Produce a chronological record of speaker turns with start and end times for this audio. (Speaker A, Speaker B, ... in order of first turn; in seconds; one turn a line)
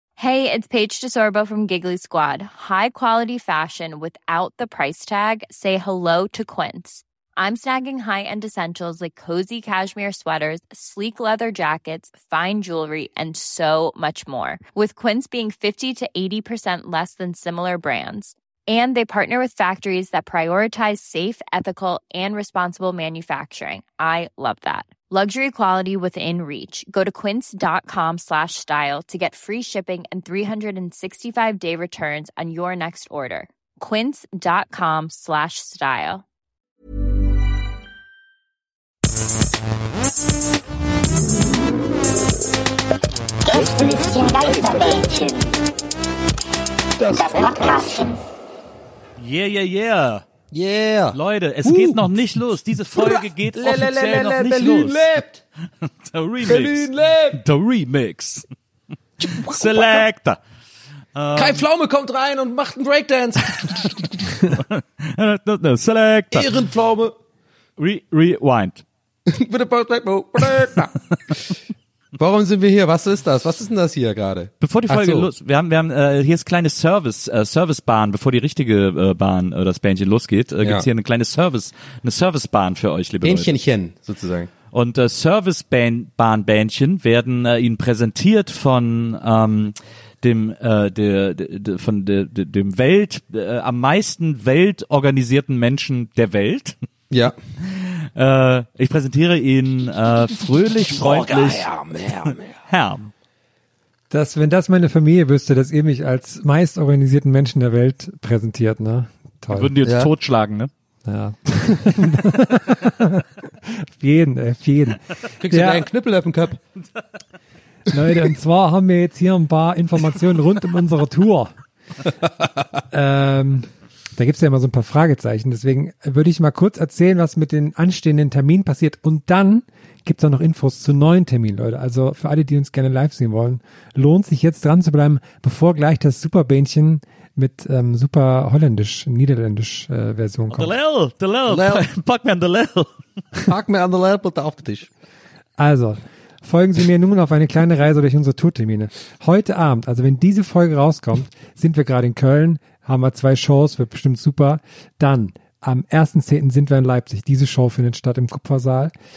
Speaker A: 0.2-36.2
Speaker B: 43.4-45.6
Speaker B: 47.0-48.2
Speaker C: 49.2-50.2
Speaker D: 50.5-52.0
Speaker C: 51.1-55.1
Speaker D: 53.0-55.4
Speaker C: 56.0-58.5
Speaker D: 56.4-57.4
Speaker D: 59.2-60.0
Speaker C: 59.4-60.4
Speaker C: 61.1-61.6
Speaker D: 61.3-64.4
Speaker C: 64.5-66.5
Speaker D: 66.3-67.1
Speaker C: 67.8-68.8
Speaker D: 69.3-70.9
Speaker D: 72.2-75.3
Speaker C: 74.6-83.5
Speaker D: 83.2-84.5
Speaker C: 84.7-96.7
Speaker C: 98.1-101.7
Speaker D: 100.8-102.5
Speaker C: 102.7-103.1
Speaker E: 104.1-109.8
Speaker C: 109.5-110.7
Speaker D: 109.8-110.1
Speaker E: 111.0-115.9
Speaker D: 115.4-116.6
Speaker E: 117.9-121.5
Speaker E: 122.9-140.7
Speaker C: 140.5-142.9
Speaker D: 141.4-141.8
Speaker D: 143.4-144.9
Speaker E: 145.6-158.9